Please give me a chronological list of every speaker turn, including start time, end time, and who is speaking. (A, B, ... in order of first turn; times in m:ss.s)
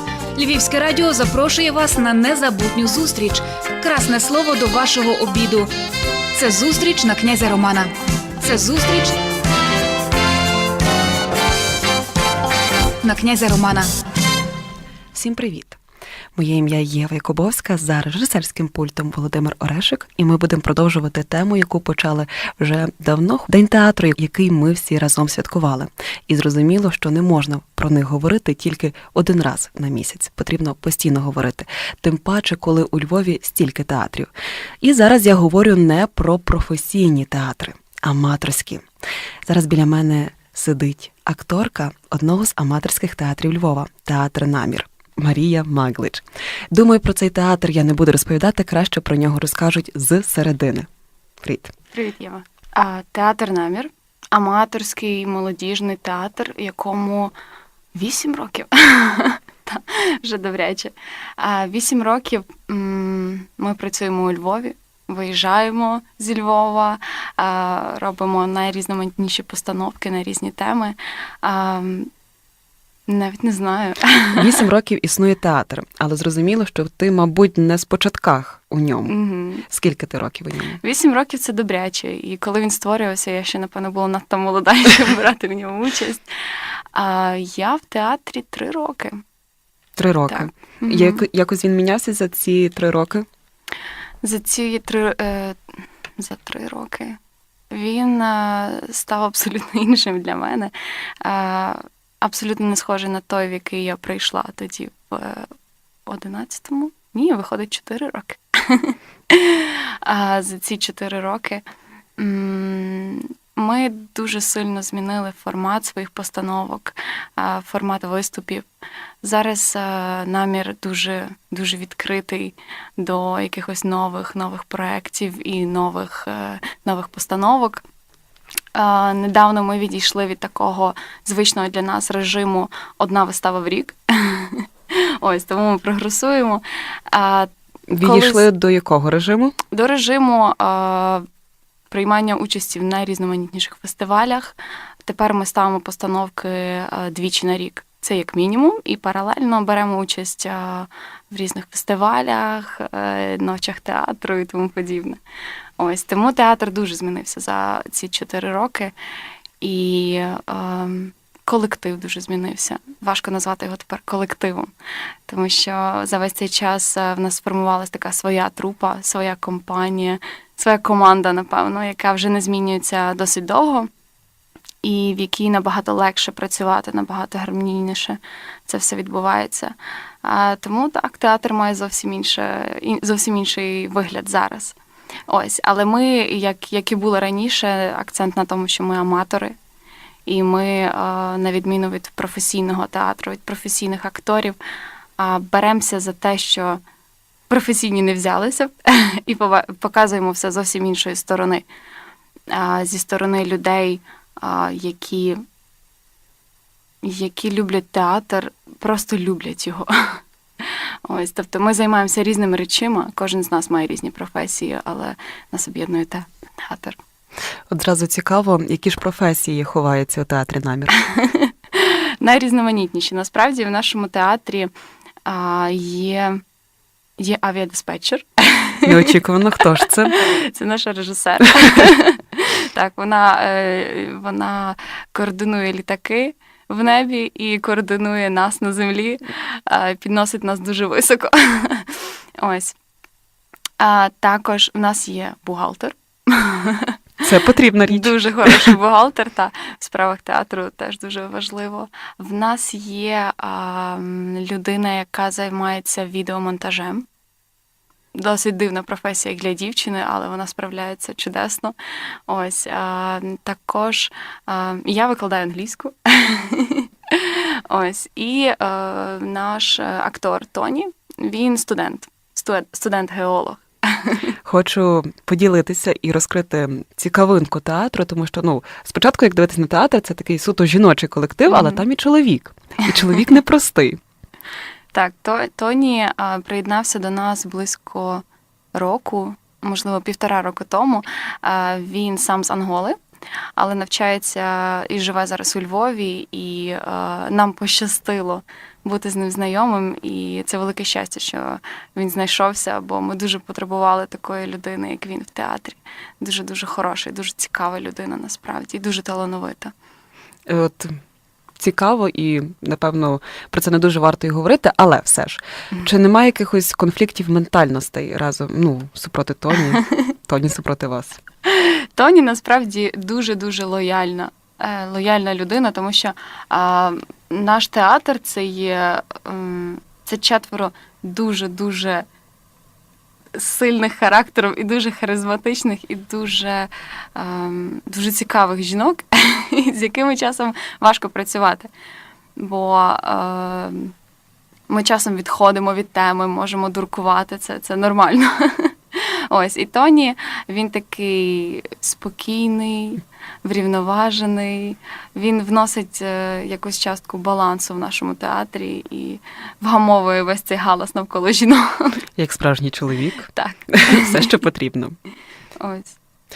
0:00.3-0:05.7 A
0:06.3-0:09.2 A
0:13.0-0:13.9 A
0:15.1-0:15.8 B
0:16.3-0:34.3 B
0:34.8-0:38.8 B
0:39.4-0:50.9 B
0:51.4-0:51.7 B
0:51.9-0:57.3 C
0:57.9-1:12.1 C
1:13.1-1:14.6 C
1:14.4-1:19.1 B
1:19.1-1:19.7 C
1:19.6-1:20.8 B
1:20.8-1:29.2 C
1:30.0-1:33.3 B
1:30.3-1:31.2 C
1:34.2-1:35.6 C
1:36.2-1:37.2 C
1:37.7-1:45.5 C
1:46.1-1:51.6 C
1:52.2-1:58.6 C
1:59.2-2:07.8 C
2:08.7-2:18.4 C
2:17.9-2:19.6 B
2:19.7-2:21.2 C
2:21.9-2:35.2 C
2:35.8-2:38.9 C
2:39.6-2:44.7 C
2:45.3-2:53.9 C
2:54.8-3:04.8 C
3:05.3-3:09.5 C
3:10.2-3:14.6 C
3:15.2-3:16.8 C
3:17.5-3:21.6 C
3:22.5-3:25.4 C
3:27.0-3:37.0 C
3:37.7-3:40.9 B
3:41.0-3:44.7 C
3:45.2-3:46.4 C
3:47.2-3:49.1 C
3:48.8-3:50.2 B
3:49.8-4:02.8 C
4:03.8-4:07.2 C
4:07.2-4:08.8 B
4:07.8-4:17.0 C
4:18.1-4:21.7 C
4:22.3-4:34.3 C
4:34.4-4:44.0 B
4:41.5-4:41.8 C
4:44.9-4:53.0 C
4:53.6-5:09.7 C
5:10.4-5:11.0 B
5:11.6-5:21.2 B
5:21.4-5:32.0 C
5:33.3-5:41.7 C
5:42.4-5:43.9 C
5:44.7-6:02.0 C
6:02.2-6:05.0 B
6:03.3-6:04.3 C
6:05.6-6:06.0 C